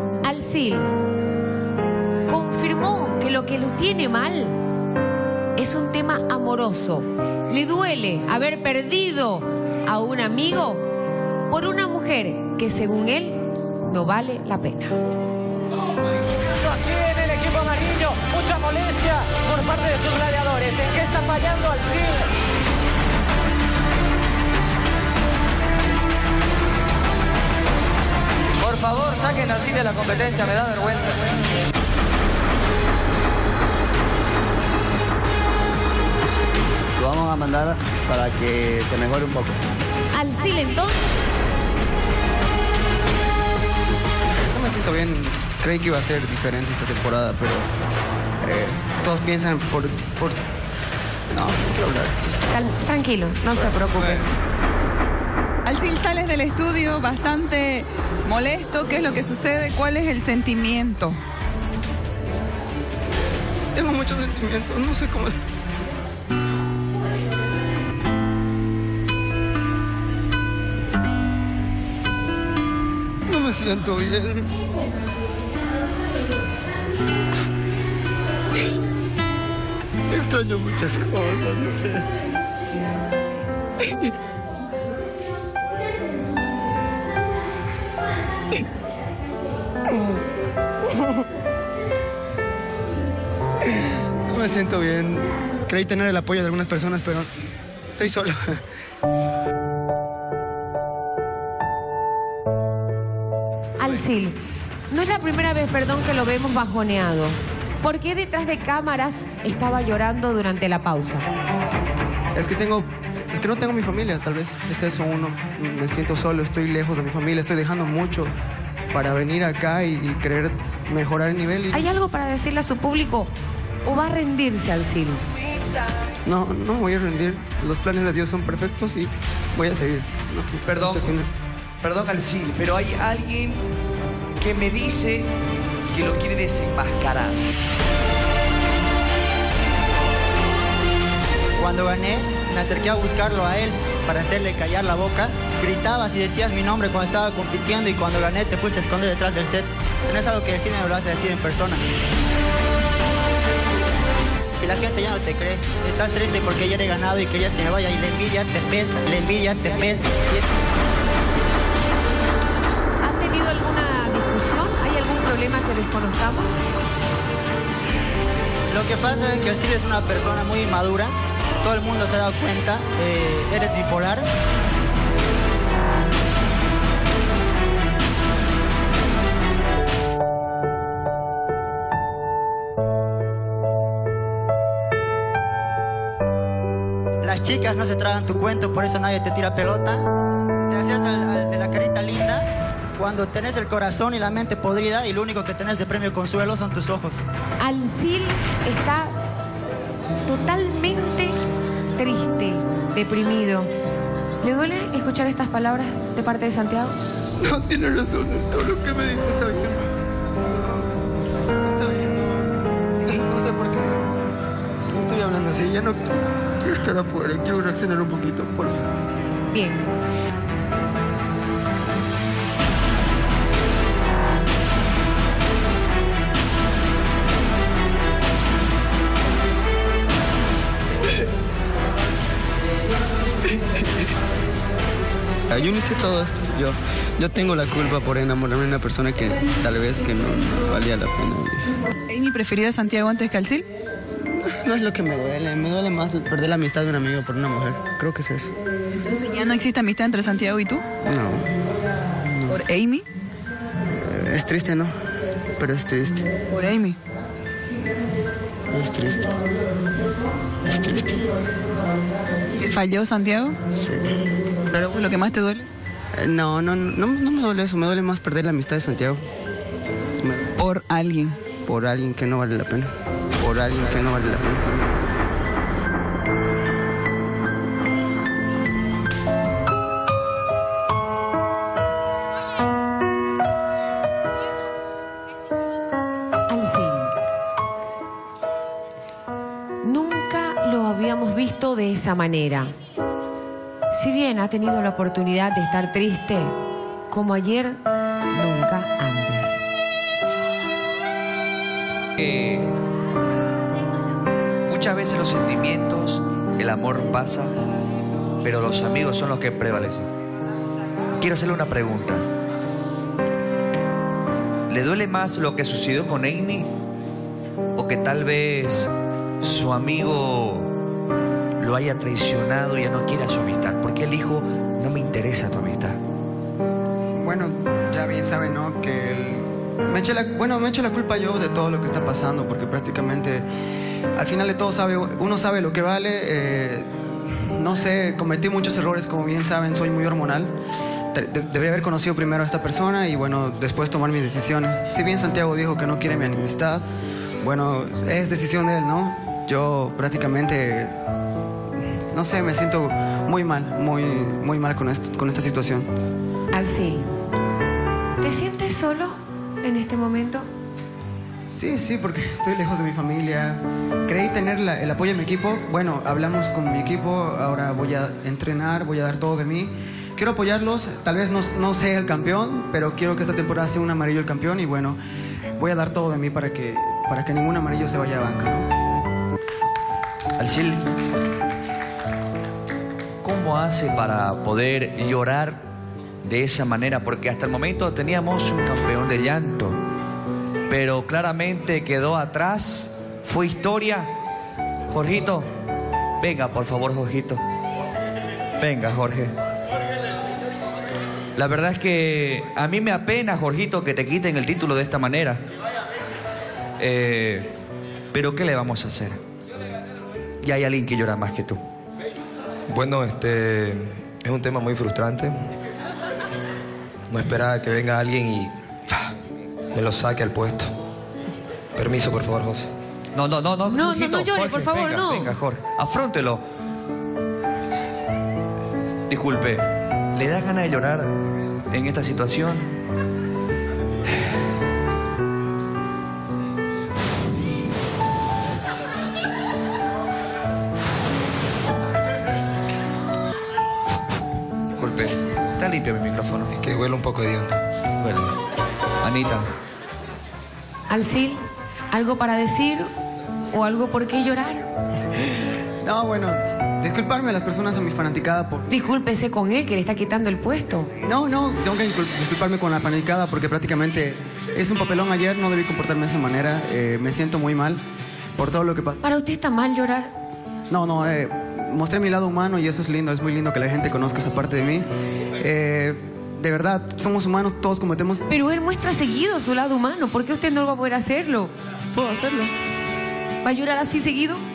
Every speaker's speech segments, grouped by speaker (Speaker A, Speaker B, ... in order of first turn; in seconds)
Speaker A: 0.2-0.9, 2.3-4.6, 5.5-10.8, 11.5-14.9, 40.1-41.0, 52.5-54.2, 103.8-104.4, 104.9-111.3, 121.7-123.3, 123.8-125.2, 163.0-166.6, 197.6-199.1, 200.3-201.3, 201.9-203.7, 204.4-206.9, 219.5-219.8, 286.5-287.1, 289.8-292.7, 293.9-296.6, 297.1-299.6, 356.5-357.1, 358.2-360.5, 423.7-425.3, 450.9-452.9, 453.5-454.7, 458.7-460.9, 469.0-470.1, 478.3-481.5, 483.4-484.4
Speaker B: 16.6-22.1
Speaker C: 28.6-31.1, 130.7-131.1, 131.8-133.6, 134.4-135.3, 135.9-137.3, 302.2-302.7, 304.7-307.5, 308.4-310.1, 311.2-312.2, 314.7-316.7, 317.8-320.7, 321.6-326.0, 380.4-380.9, 383.2-385.6, 386.2-389.8, 390.7-394.1, 394.9-395.4, 396.2-397.4, 398.6-399.3, 401.4-405.4, 406.8-407.5, 408.1-409.2, 410.4-411.6, 423.1-426.4, 429.1-429.6, 430.1-431.1, 431.7-432.7, 444.8-446.6, 448.0-448.3, 449.0-449.5
Speaker D: 37.0-39.6
Speaker E: 44.4-47.7, 48.4-50.4, 51.3-52.3, 63.7-65.4, 73.3-74.5, 80.1-82.1, 83.8-84.1, 89.9-90.2, 90.9-91.2, 93.8-97.3, 97.9-98.6, 112.3-118.3, 118.9-121.9, 126.2-131.3, 207.4-209.8, 211.6-214.1, 214.9-218.8, 235.5-241.7, 244.1-248.5, 251.0-251.4, 252.3-252.6, 253.8-254.9, 255.6-256.3, 258.7-259.3, 260.7-261.2, 263.8-264.2, 266.2-269.2, 270.2-270.5, 271.6-275.1, 327.2-333.5, 334.1-340.5, 341.1-346.8, 347.4-350.9, 352.1-355.9, 361.5-375.0, 375.6-378.7, 455.8-458.6, 461.0-467.8, 468.4-469.0, 470.7-474.8, 475.4-478.2, 481.9-482.5
Speaker F: 55.6-61.2, 242.1-243.7, 248.9-250.8, 252.4-253.1, 256.5-257.0, 262.6-263.6, 264.7-265.7, 270.6-271.4
Speaker G: 141.6-151.8, 154.6-160.4, 168.7-174.3, 187.2-190.1, 190.7-197.2
Speaker H: 412.7-415.3, 417.1-419.1, 419.7-420.7, 421.8-422.7, 446.5-447.6